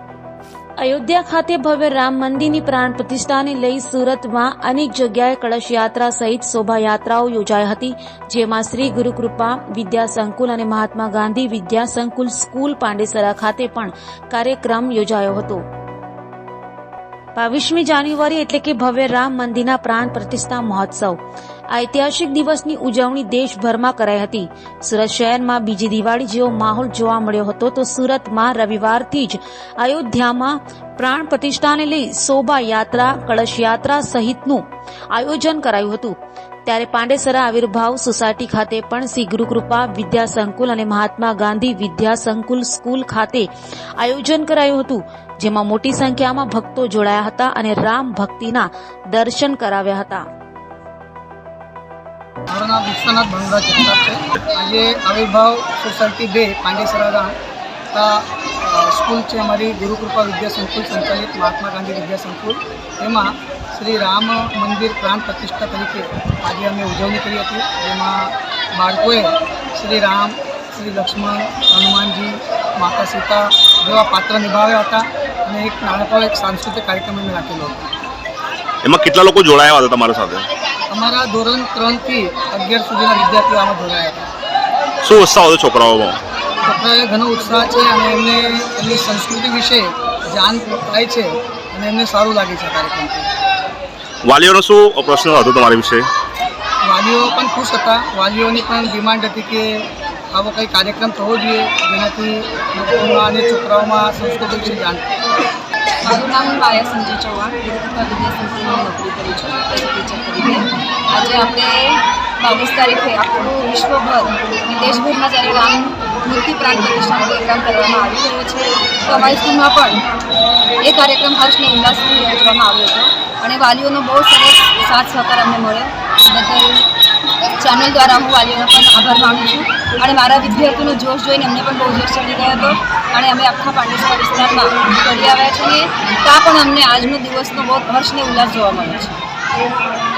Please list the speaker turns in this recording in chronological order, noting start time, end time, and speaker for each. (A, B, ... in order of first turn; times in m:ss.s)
0:00.8-0:15.6 A
0:17.4-0:21.2 A
0:21.7-0:36.1 A
0:36.6-0:43.5 A
0:44.0-0:50.2 A
0:52.5-0:57.3 B
0:57.9-1:17.9 B
1:18.8-1:20.5 C
1:20.9-1:24.3 B
1:25.0-1:26.2 C
1:26.6-1:33.3 B
1:34.2-1:36.1 C
1:36.8-1:39.7 B
1:40.3-1:45.1 B
1:46.0-2:00.0 D
2:00.8-2:06.8 D
2:07.6-2:19.2 D